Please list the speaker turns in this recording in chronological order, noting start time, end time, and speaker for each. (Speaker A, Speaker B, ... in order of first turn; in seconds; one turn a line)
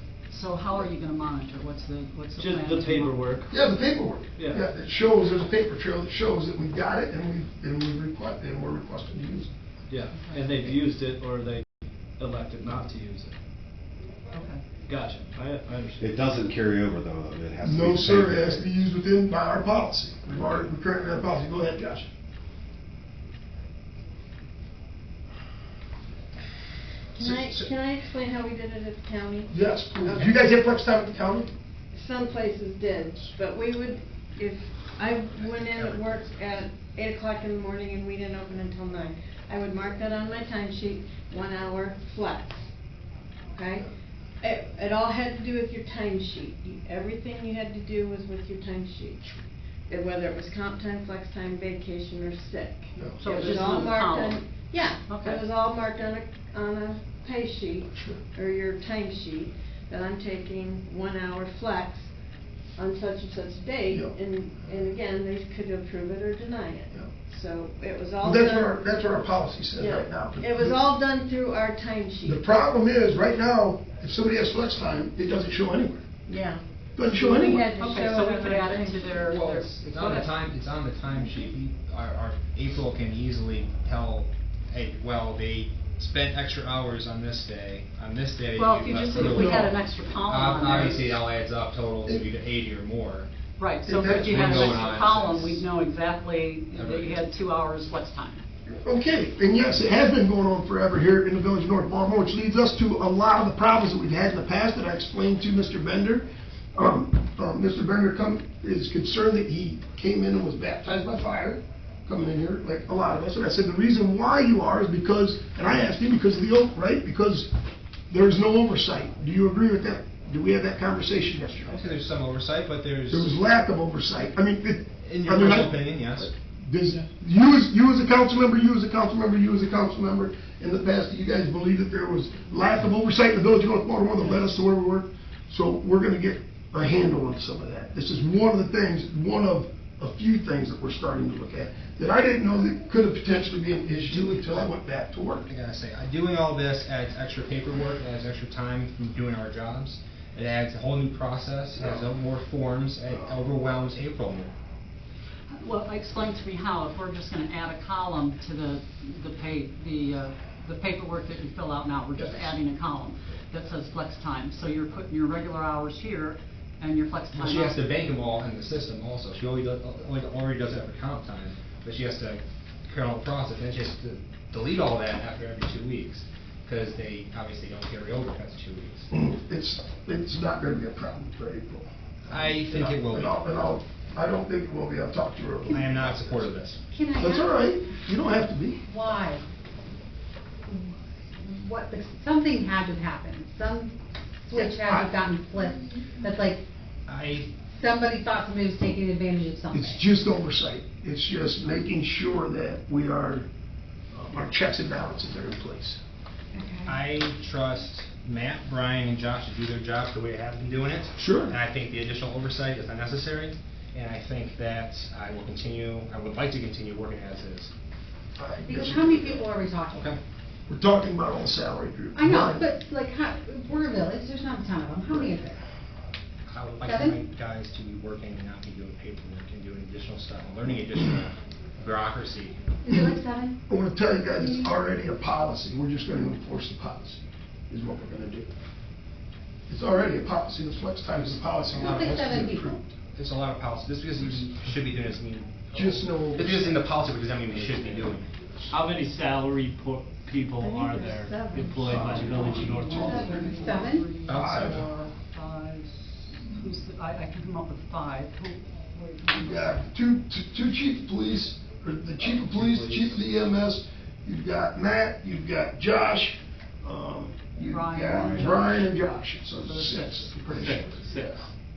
Speaker A: 0.3-3.4
Speaker B: 2.4-3.6
Speaker C: 3.5-9.5
Speaker B: 4.3-4.7
Speaker B: 9.9-11.7
Speaker B: 12.2-13.3
Speaker A: 14.3-14.6
Speaker B: 14.9-16.2
Speaker D: 16.0-18.7
Speaker C: 17.6-22.1
Speaker E: 27.1-30.4
Speaker C: 27.2-27.7
Speaker C: 29.5-31.5
Speaker E: 31.9-42.7
Speaker F: 35.4-36.3
Speaker E: 43.5-43.9
Speaker E: 44.4-49.4
Speaker E: 49.9-62.1
Speaker C: 53.0-53.3
Speaker A: 53.2-54.4
Speaker A: 55.1-55.4
Speaker C: 57.9-58.2
Speaker E: 62.8-69.0
Speaker C: 63.9-64.1
Speaker C: 68.2-70.8
Speaker E: 69.7-72.5
Speaker C: 72.2-76.0
Speaker E: 76.2-79.2
Speaker C: 77.0-77.7
Speaker A: 77.8-80.3
Speaker F: 79.2-93.3
Speaker A: 88.5-91.2
Speaker C: 89.2-89.7
Speaker A: 93.6-98.4
Speaker C: 93.8-94.7
Speaker F: 94.1-95.7
Speaker F: 96.7-97.2
Speaker C: 98.7-117.5
Speaker C: 118.1-121.8
Speaker F: 121.7-123.4
Speaker C: 123.1-145.5
Speaker F: 125.0-126.3
Speaker F: 144.1-144.6
Speaker F: 145.5-154.5
Speaker C: 151.8-152.0
Speaker C: 153.1-153.4
Speaker A: 155.5-167.9
Speaker F: 167.3-179.1
Speaker C: 179.1-186.6
Speaker F: 182.3-183.4
Speaker F: 185.7-186.8
Speaker G: 186.9-187.6
Speaker C: 187.2-188.8
Speaker G: 188.9-189.4
Speaker G: 190.7-196.6
Speaker C: 194.5-195.2
Speaker F: 197.1-197.6
Speaker G: 197.6-200.0
Speaker C: 199.7-203.5
Speaker C: 204.1-206.0
Speaker G: 206.5-207.0
Speaker F: 206.8-217.7
Speaker C: 211.2-211.6
Speaker C: 218.4-219.4
Speaker G: 218.6-220.1
Speaker F: 219.9-220.2
Speaker C: 220.7-222.7
Speaker G: 222.1-225.6
Speaker C: 225.1-225.3
Speaker F: 226.5-232.6
Speaker G: 226.8-227.2
Speaker G: 232.8-233.6
Speaker C: 232.9-238.5
Speaker G: 234.3-234.7
Speaker C: 239.7-242.9
Speaker F: 241.8-242.1
Speaker G: 241.8-242.8
Speaker F: 243.1-248.3
Speaker C: 245.7-246.9
Speaker B: 248.7-253.2
Speaker E: 250.6-252.8
Speaker C: 251.8-253.7
Speaker A: 252.8-259.9
Speaker G: 253.1-254.1
Speaker F: 254.2-254.8
Speaker C: 254.3-254.9
Speaker C: 259.3-271.4
Speaker B: 262.2-263.2
Speaker A: 267.7-268.9
Speaker A: 269.6-270.4
Speaker B: 270.5-271.5